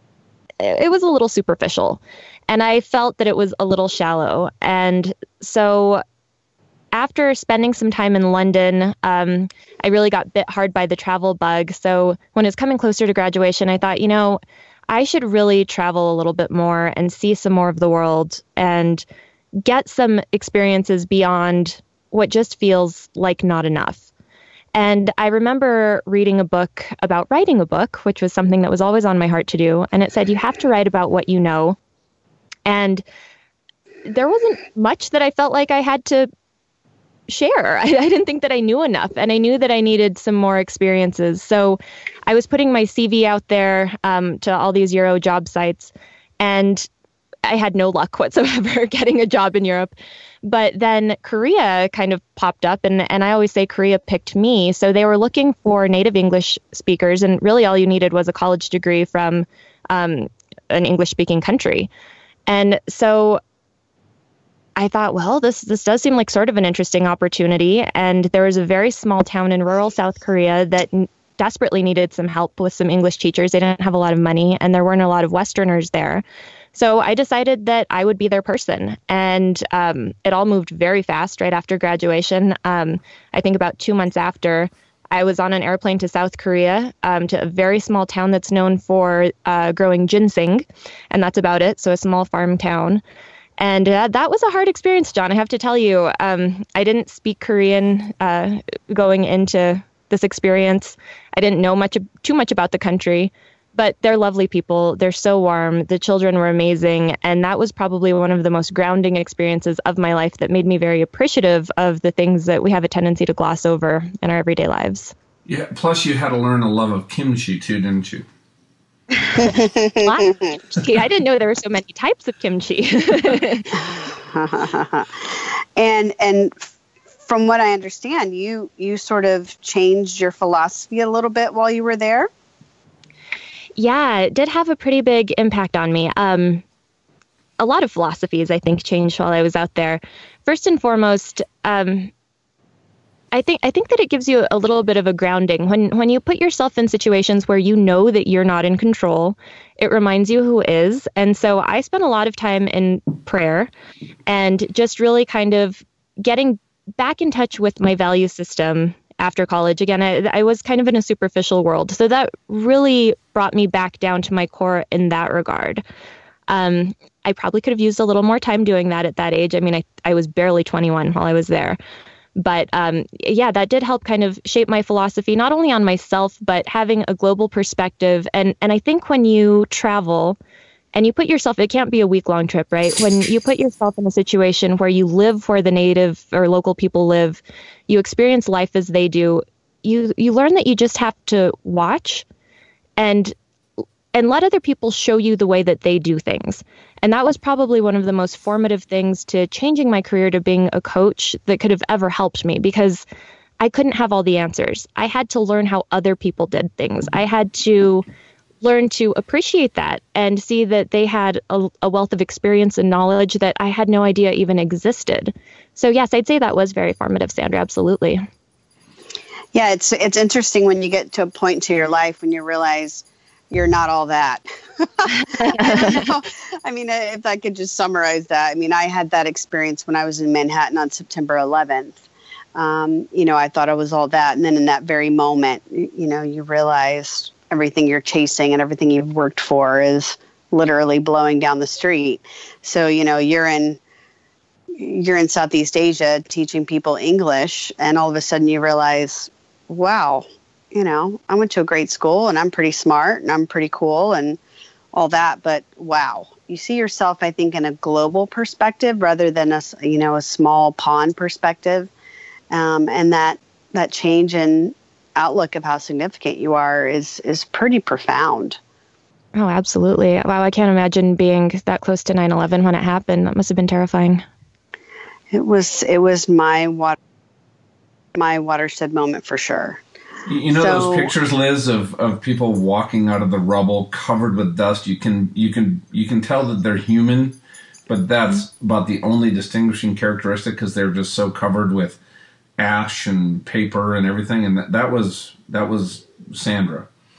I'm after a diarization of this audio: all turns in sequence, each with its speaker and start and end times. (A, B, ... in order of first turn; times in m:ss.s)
0:00.6-0:06.0 A
0:06.9-0:19.0 A
0:19.6-0:24.1 A
0:24.7-0:31.8 A
0:32.6-0:33.0 A
0:34.0-0:36.3 A
0:37.3-0:46.9 A
0:47.4-0:49.9 A
0:50.4-1:01.9 A
1:02.5-1:03.4 A
1:04.8-1:33.0 A
1:33.6-1:55.1 A
1:55.4-1:58.2 B
1:59.1-2:04.0 A
1:59.4-2:00.1 C
2:03.9-2:06.7 C
2:07.2-2:12.3 C
2:13.8-2:16.6 A
2:17.6-2:22.1 A
2:23.3-2:33.7 A
2:34.3-2:45.8 A
2:46.5-2:51.8 A
2:52.4-3:00.4 A
3:00.9-3:12.2 A
3:13.0-3:13.3 A
3:14.1-3:23.0 A
3:23.6-3:28.0 A
3:28.6-3:38.2 A
3:39.5-3:52.0 C
3:45.4-3:46.0 A
3:52.5-4:03.8 C
4:04.8-4:14.4 C
4:14.9-4:21.9 C
4:22.5-4:28.6 C
4:29.3-4:34.2 A
4:35.3-4:37.0 C
4:38.1-4:39.8 C
4:40.2-4:47.4 B
4:40.5-4:41.1 C
4:47.9-4:52.0 B
4:52.6-4:56.9 B